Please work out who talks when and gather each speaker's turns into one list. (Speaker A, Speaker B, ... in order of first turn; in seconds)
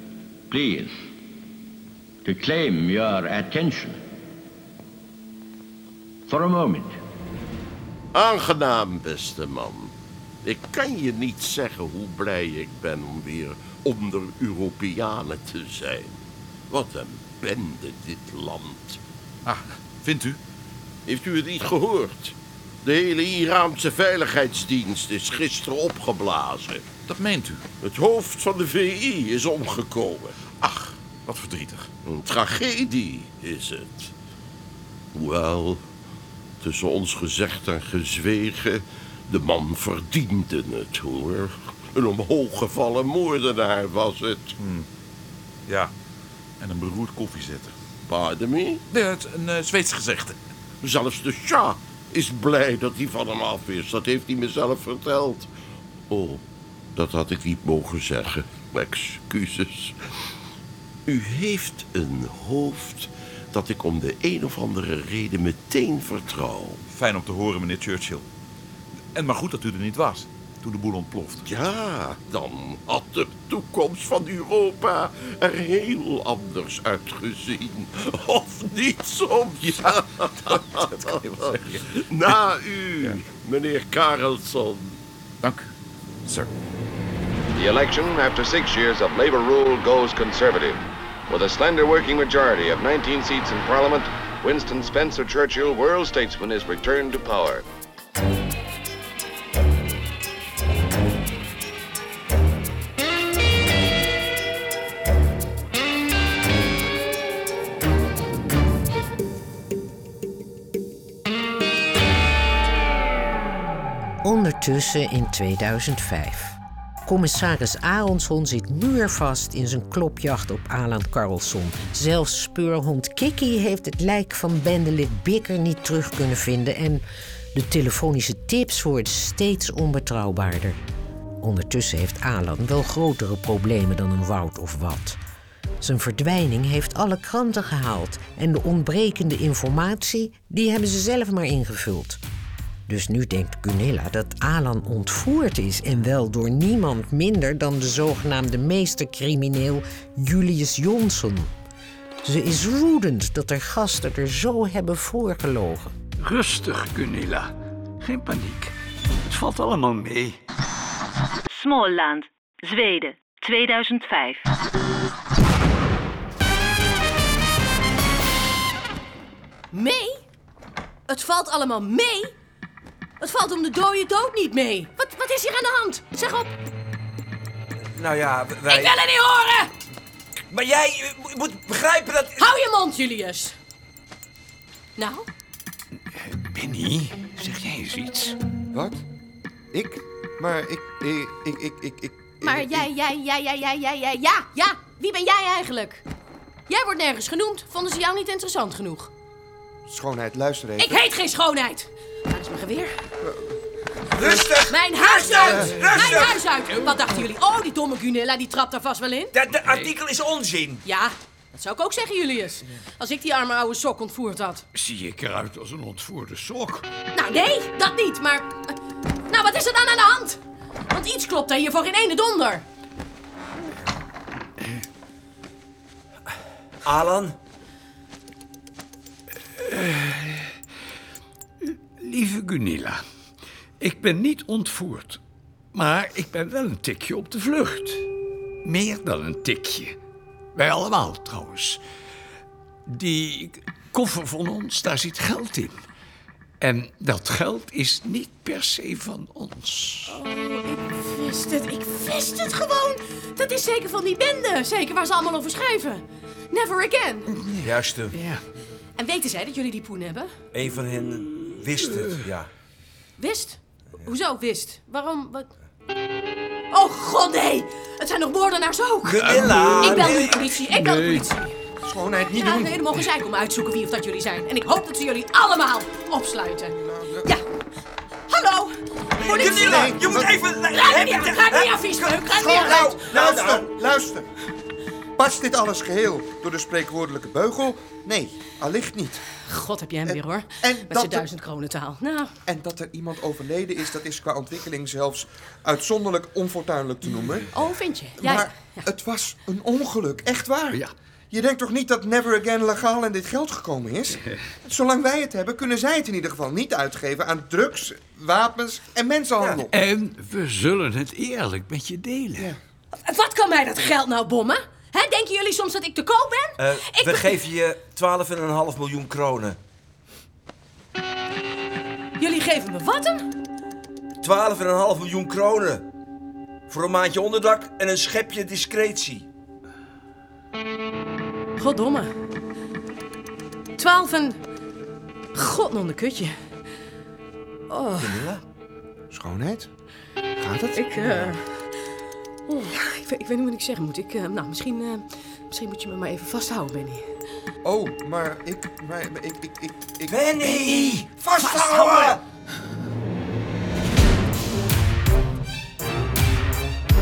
Speaker A: 0.5-1.0, 2.2-4.0, 6.3-7.0
Speaker B: 8.1-9.9, 10.4-16.2, 16.7-19.0, 21.1-26.9, 27.8-30.4, 32.0-34.1, 35.1-35.8, 36.6-44.5, 48.1-48.8, 50.8-55.5, 56.1-56.4, 56.9-60.0, 61.1-66.8, 71.4-85.0
Speaker C: 19.4-20.4, 27.1-27.6, 30.6-31.9, 44.6-44.9, 45.7-45.9, 46.6-47.8, 48.9-50.4, 66.9-68.2, 69.1-71.5, 79.8-82.3, 85.4-85.7, 86.2-86.5
Speaker D: 87.5-97.6
Speaker E: 114.2-130.8, 131.4-135.2, 135.8-142.2, 142.9-151.5, 152.2-155.9
Speaker F: 156.2-158.7, 159.2-160.4, 186.1-188.3, 214.7-216.9, 229.6-230.5, 231.6-233.0, 233.8-235.2, 235.7-238.0, 238.6-239.9, 240.5-241.8, 242.9-245.8, 246.6-250.2, 257.3-258.4, 270.8-271.2, 309.7-312.5
Speaker G: 161.5-164.4
Speaker H: 169.7-170.2, 171.1-172.3, 173.2-176.5, 178.7-179.7, 182.4-183.5, 185.0-185.3, 192.4-196.0, 196.7-199.1, 200.8-202.9, 204.7-209.3, 210.8-214.6, 217.1-218.8, 219.3-220.4, 220.9-222.6, 250.1-257.3, 259.0-260.3, 263.2-265.5, 266.7-271.5, 272.3-277.4, 278.3-280.0, 280.7-283.2, 289.4-292.3, 297.5-298.9, 313.0-317.3, 322.2-323.2, 331.6-332.1, 333.8-334.4, 335.3-336.4, 337.7-338.3, 340.7-341.7, 342.5-347.1, 351.6-352.0
Speaker I: 177.9-179.0, 180.5-182.5, 204.1-206.5, 209.3-210.8, 226.8-227.3, 257.6-258.1, 260.5-262.5, 269.0-270.6, 279.2-283.7, 316.6-319.6, 324.2-325.8, 326.7-329.3, 338.0-338.4, 350.1-352.2
Speaker J: 188.7-189.0, 189.7-192.9, 199.9-201.0, 203.2-203.5, 204.2-204.5, 271.8-273.0, 276.8-277.3, 279.6-280.3, 282.3-284.2, 285.2-289.2, 290.1-291.3, 292.5-297.5, 298.2-309.7, 339.1-339.7, 340.4-341.3, 347.6-350.7